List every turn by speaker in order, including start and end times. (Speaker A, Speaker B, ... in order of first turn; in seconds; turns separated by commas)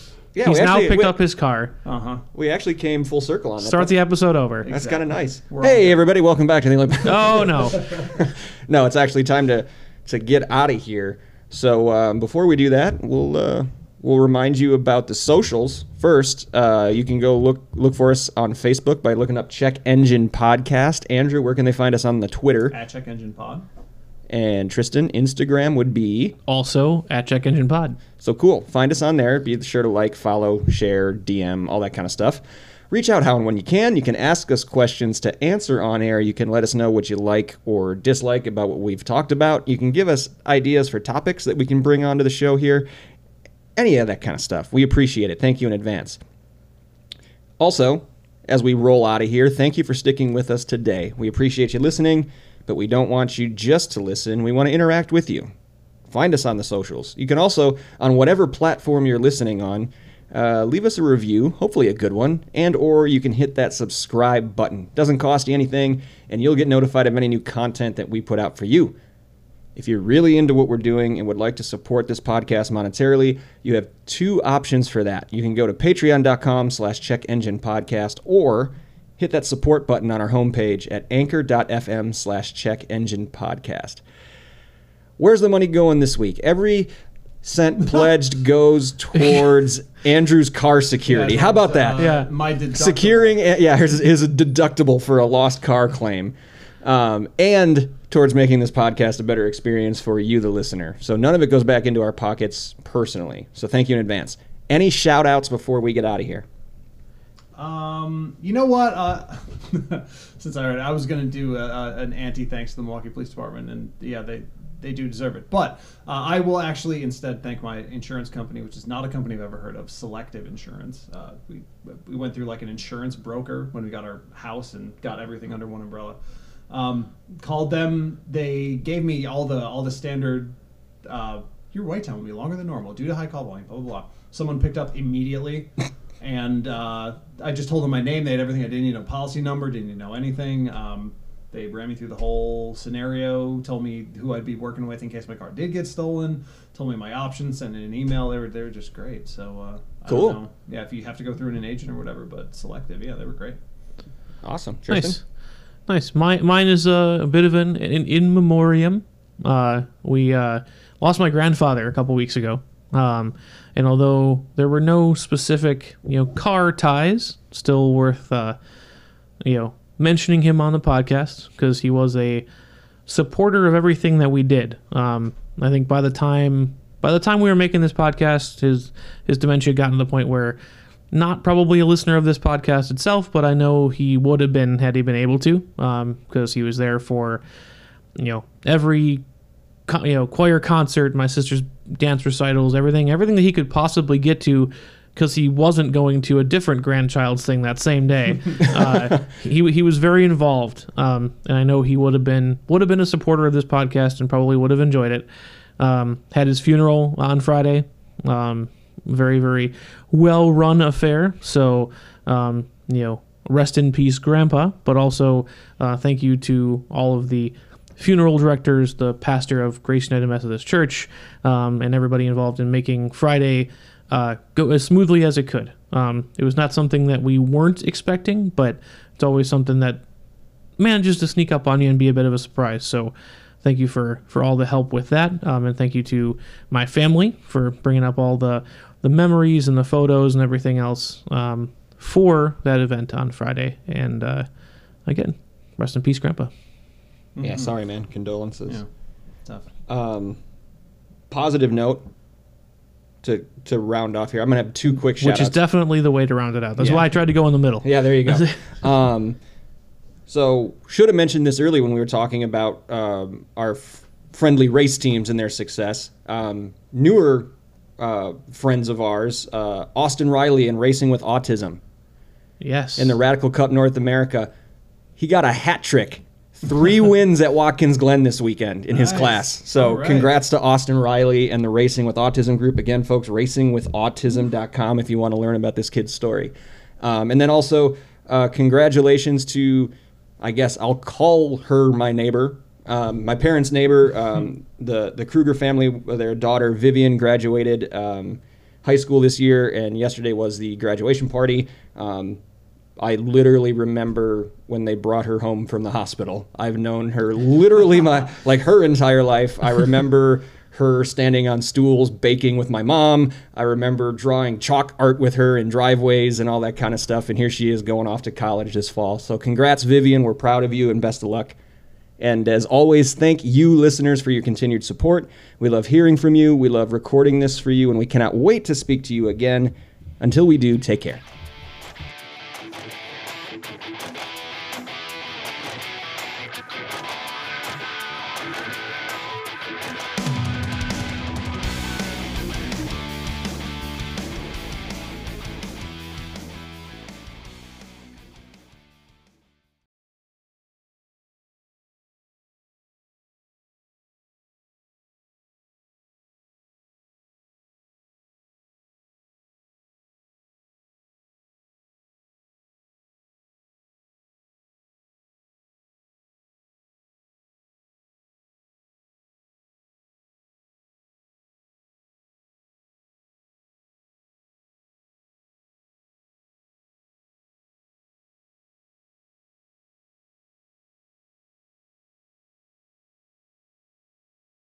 Speaker A: 0.3-1.2, Speaker B: 0.4-1.8, Speaker C: 1.9-2.2, Speaker A: 2.3-3.9, Speaker B: 3.6-4.7, Speaker C: 4.6-6.0, Speaker A: 4.7-22.8, Speaker B: 7.0-7.9, Speaker C: 22.7-23.7, Speaker A: 24.3-26.4, Speaker B: 26.5-28.0, Speaker A: 28.2-42.9, Speaker A: 43.8-46.2, Speaker A: 47.6-55.5, Speaker A: 56.1-69.0, Speaker A: 69.8-84.0, Speaker A: 85.2-86.9, Speaker A: 87.4-106.5, Speaker C: 91.1-93.4, Speaker B: 92.0-92.3, Speaker C: 107.6-126.2, Speaker C: 126.7-135.7, Speaker C: 136.2-153.6, Speaker A: 150.1-150.4, Speaker A: 154.4-155.2, Speaker B: 154.9-155.2, Speaker B: 155.9-168.6, Speaker B: 169.4-172.4, Speaker B: 173.1-180.6, Speaker B: 181.1-187.4, Speaker B: 188.2-189.2, Speaker B: 189.9-205.3, Speaker B: 205.8-230.0, Speaker B: 230.8-244.5, Speaker B: 245.1-246.5, Speaker C: 247.3-247.7, Speaker A: 247.4-248.8, Speaker C: 249.5-249.7, Speaker A: 249.9-250.4, Speaker A: 251.3-252.1, Speaker A: 253.2-255.6, Speaker B: 255.2-258.6, Speaker A: 256.8-257.1, Speaker A: 257.8-259.4, Speaker A: 260.3-271.8, Speaker B: 272.6-273.2, Speaker A: 273.0-274.5, Speaker A: 275.2-302.4, Speaker C: 278.9-280.3, Speaker A: 303.0-321.6, Speaker A: 322.2-331.2